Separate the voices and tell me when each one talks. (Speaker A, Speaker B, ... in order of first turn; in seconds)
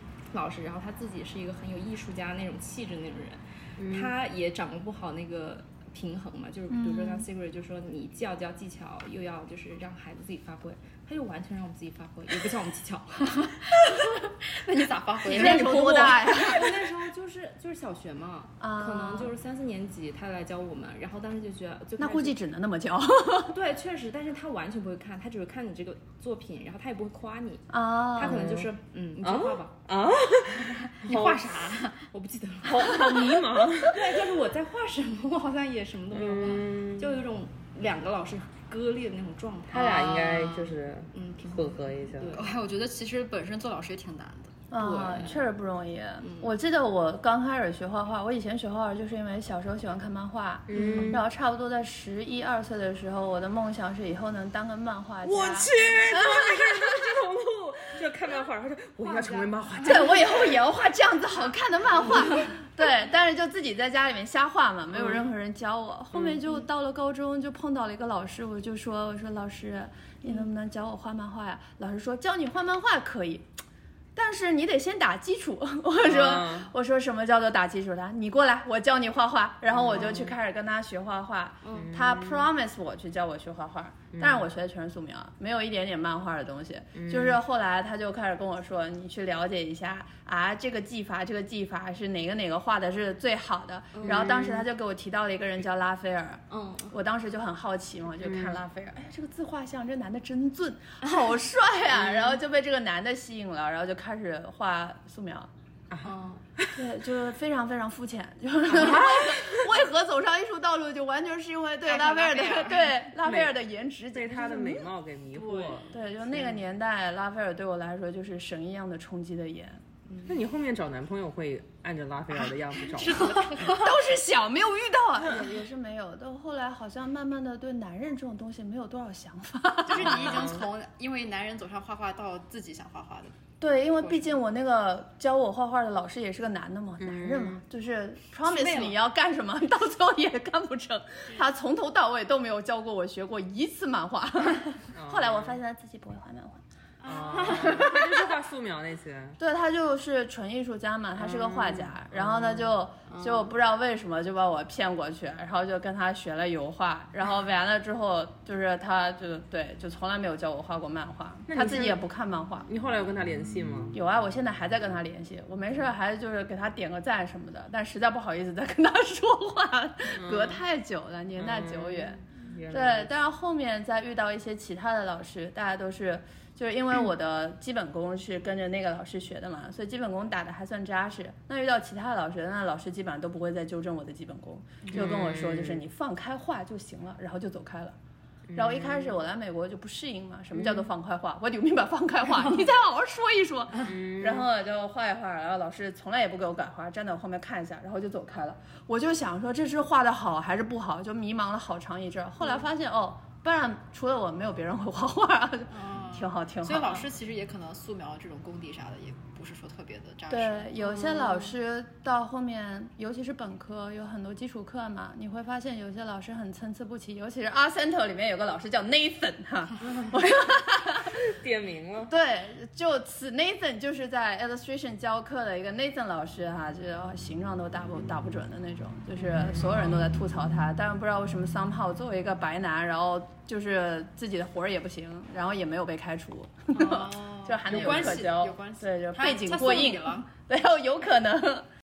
Speaker A: 0.3-14.1, 15.3-22.4, 23.5-29.7, 30.8-40.6, 41.1-42.5, 44.8-45.4, 50.7-51.2, 59.0-60.3, 81.6-81.9, 94.0-94.5, 96.5-96.9, 106.0-106.4, 115.3-116.6, 123.0-123.7, 138.6-138.8, 147.1-147.9
Speaker B: 3.8-4.1, 28.2-28.7, 29.2-31.5, 32.6-34.2, 36.1-37.2, 39.7-42.4, 50.7-51.2, 55.2-60.6, 66.1-66.4, 76.0-76.7, 79.7-80.4, 81.8-82.5, 84.2-84.5, 87.0-87.4, 94.0-94.7, 98.2-98.6, 101.9-102.3, 105.9-106.8, 108.7-109.6, 113.2-113.6, 114.1-116.0, 120.3-123.9, 125.2-125.5, 130.0-130.6, 137.0-137.6, 144.9-145.6, 147.0-149.4, 151.2-152.8, 161.5-162.0, 162.7-164.0, 170.1-170.6, 171.3-173.1, 184.9-185.8, 188.5-189.2, 190.5-190.9, 193.8-194.5, 221.1-222.1, 237.7-238.2
Speaker C: 6.7-7.3, 15.3-16.7, 18.6-19.3, 22.0-23.6, 27.7-28.4, 44.7-57.0, 59.8-73.5, 74.2-105.5, 106.7-114.9, 115.9-119.8, 123.6-130.5, 133.6-146.6, 147.3-148.0, 149.4-162.7, 163.9-188.0, 188.6-207.1, 210.3-221.2, 222.1-241.7
Speaker D: 14.4-16.6, 31.1-32.0, 40.2-40.7, 42.3-44.5, 111.8-113.0, 123.0-123.9, 129.9-133.3, 134.0-134.3, 138.5-138.9, 147.1-147.7, 205.7-211.5, 236.7-240.3